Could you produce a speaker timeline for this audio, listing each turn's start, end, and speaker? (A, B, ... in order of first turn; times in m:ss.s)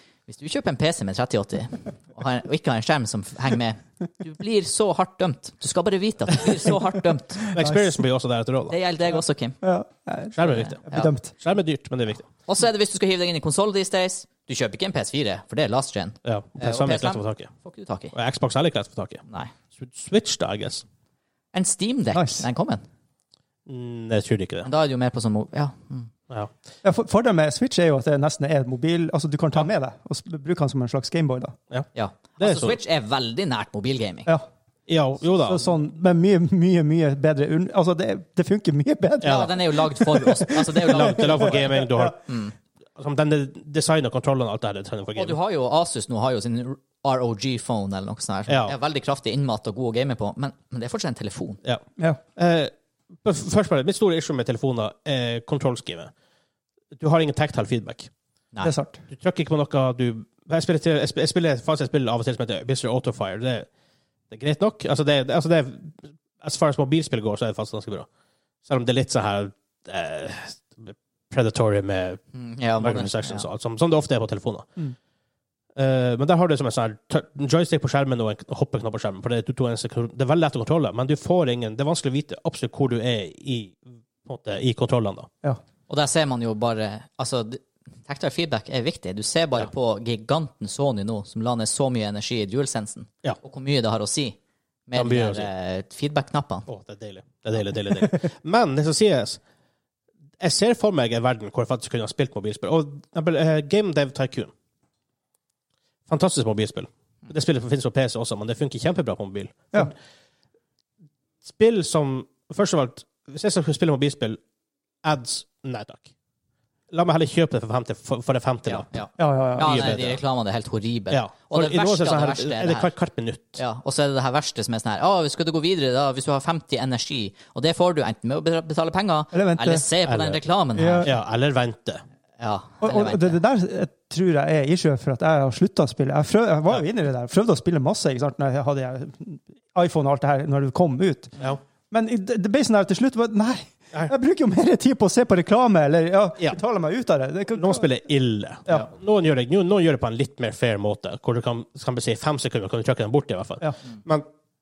0:00.3-0:07.4 A
0:07.4-0:07.9 B
0:07.5-0:08.8 C
0:08.7-0:09.6 A
0:09.6-0:11.3 B
0:10.4-0:12.3 C
0:10.4-0:11.1 A
0:12.5-0:18.1 A
0:16.2-0:17.5 C
0:18.1-0:19.2 C
0:19.8-0:20.8 C
0:21.5-0:22.8 A
0:22.1-0:22.5 B
0:23.7-0:24.7 C
0:24.6-0:26.1 A
0:26.8-0:31.6 B
0:31.9-0:34.3 A
0:32.4-0:32.8 C
0:34.9-0:35.7 C
0:35.4-0:42.1 B
0:39.2-0:39.5 C
0:39.2-0:41.6 A
0:40.8-0:42.3 C
0:42.3-0:42.5 A
0:43.0-0:45.4 C
0:45.2-0:51.6 A
0:48.5-0:48.7 C
0:52.4-0:52.7 C
0:53.2-0:56.1 C
0:57.0-0:58.1 C
0:58.6-0:59.0 B
0:59.1-1:03.7 C
1:04.3-1:08.1 C
1:08.6-1:12.2 C
1:12.3-1:13.5 A
1:12.8-1:14.7 C
1:15.8-1:25.3 C
1:25.9-1:36.7 A
1:35.0-1:35.5 C
1:36.7-1:39.4 C
1:40.4-1:44.5 C
1:46.1-1:49.9 C
1:51.4-1:54.4 C
1:55.0-1:56.1 C
1:56.9-1:58.9 C
1:58.7-2:02.9 A
1:59.2-1:59.8 B
1:59.6-2:00.2 C
2:01.1-2:03.6 C
2:03.6-2:11.1 A
2:09.3-2:09.9 B
2:10.1-2:10.4 C
2:10.8-2:11.1 B
2:11.0-2:12.0 C
2:12.4-2:13.4 A
2:12.8-2:21.4 B
2:21.9-2:27.9 B
2:27.5-2:34.3 C